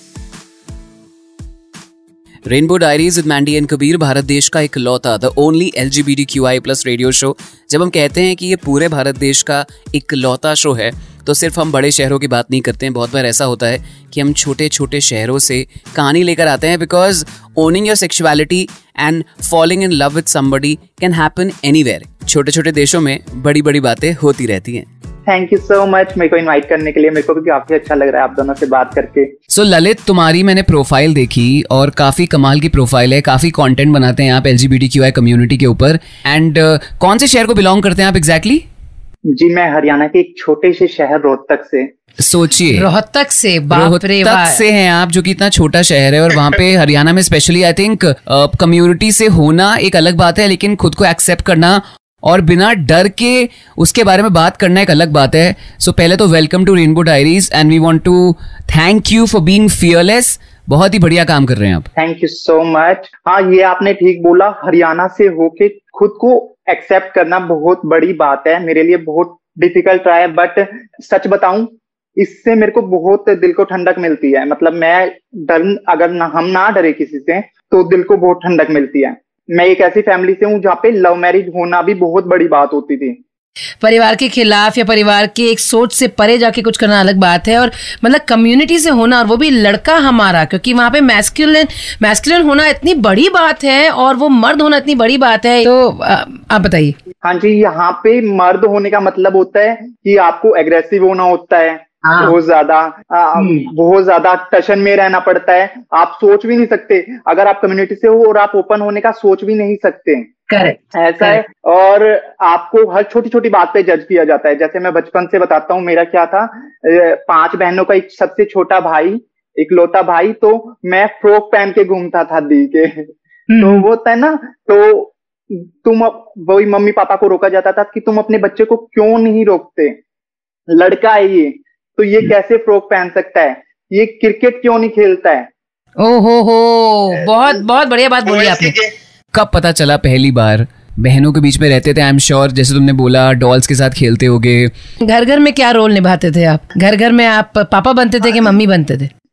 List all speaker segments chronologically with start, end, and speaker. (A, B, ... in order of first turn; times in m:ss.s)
0:02.5-0:24.9 A
0:25.3-0:29.3 B
0:29.5-0:38.6 A
0:39.3-0:41.9 B
0:42.2-0:42.9 A
0:42.7-0:44.6 C
0:43.7-1:01.9 A
1:02.0-1:23.2 B
1:23.8-1:37.0 C
1:37.2-1:50.3 B
1:42.0-1:42.4 C
1:43.4-1:43.7 C
1:50.5-1:51.4 C
1:50.9-2:10.0 B
2:03.5-2:03.8 C
2:10.7-2:15.5 B
2:16.0-2:18.8 C
2:19.3-2:24.7 A
2:25.0-2:29.1 C